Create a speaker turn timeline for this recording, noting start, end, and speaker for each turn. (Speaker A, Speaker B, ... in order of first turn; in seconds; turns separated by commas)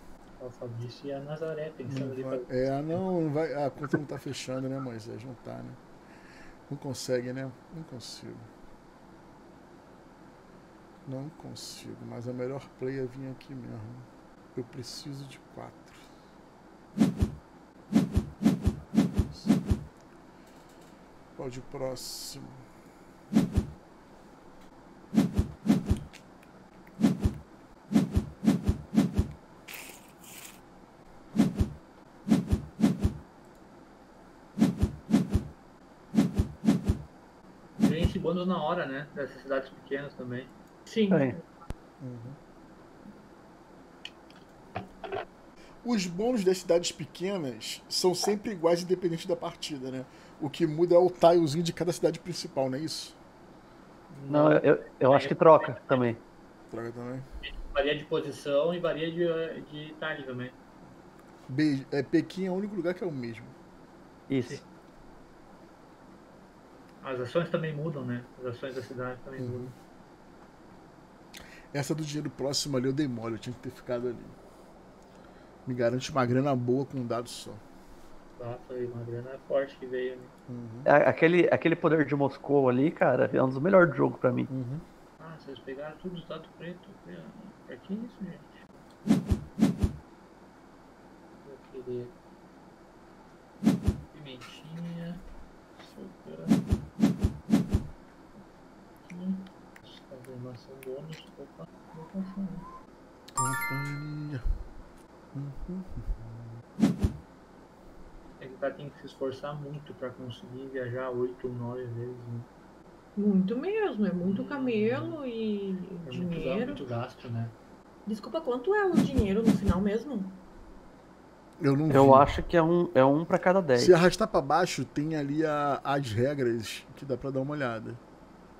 Speaker A: 0.4-3.0, Speaker B: 1.9-5.8, Speaker B: 6.7-8.5, Speaker B: 11.1-16.1, Speaker B: 19.2-19.5, Speaker B: 21.4-22.6, Speaker A: 37.8-40.5, Speaker C: 40.9-41.4, Speaker D: 41.1-41.4, Speaker B: 42.0-42.4, Speaker B: 45.8-53.1, Speaker A: 54.1-56.0, Speaker D: 54.3-56.2, Speaker B: 56.7-57.2, Speaker A: 57.4-60.5, Speaker B: 61.5-63.5, Speaker D: 64.3-64.6, Speaker A: 67.0-69.7, Speaker B: 69.4-69.7, Speaker B: 71.7-74.3, Speaker B: 75.7-77.6, Speaker A: 78.4-80.3, Speaker B: 80.5-80.9, Speaker D: 80.8-84.5, Speaker B: 84.5-84.8, Speaker A: 85.2-88.6, Speaker A: 91.4-92.1, Speaker A: 94.1-95.2, Speaker A: 95.8-96.6, Speaker A: 99.0-102.7, Speaker B: 103.3-104.4, Speaker B: 105.3-106.5, Speaker A: 108.4-112.5, Speaker C: 113.2-116.8, Speaker A: 114.2-115.2, Speaker A: 116.0-117.5, Speaker C: 118.0-120.4, Speaker B: 121.6-122.3, Speaker D: 121.9-123.9, Speaker B: 123.8-128.0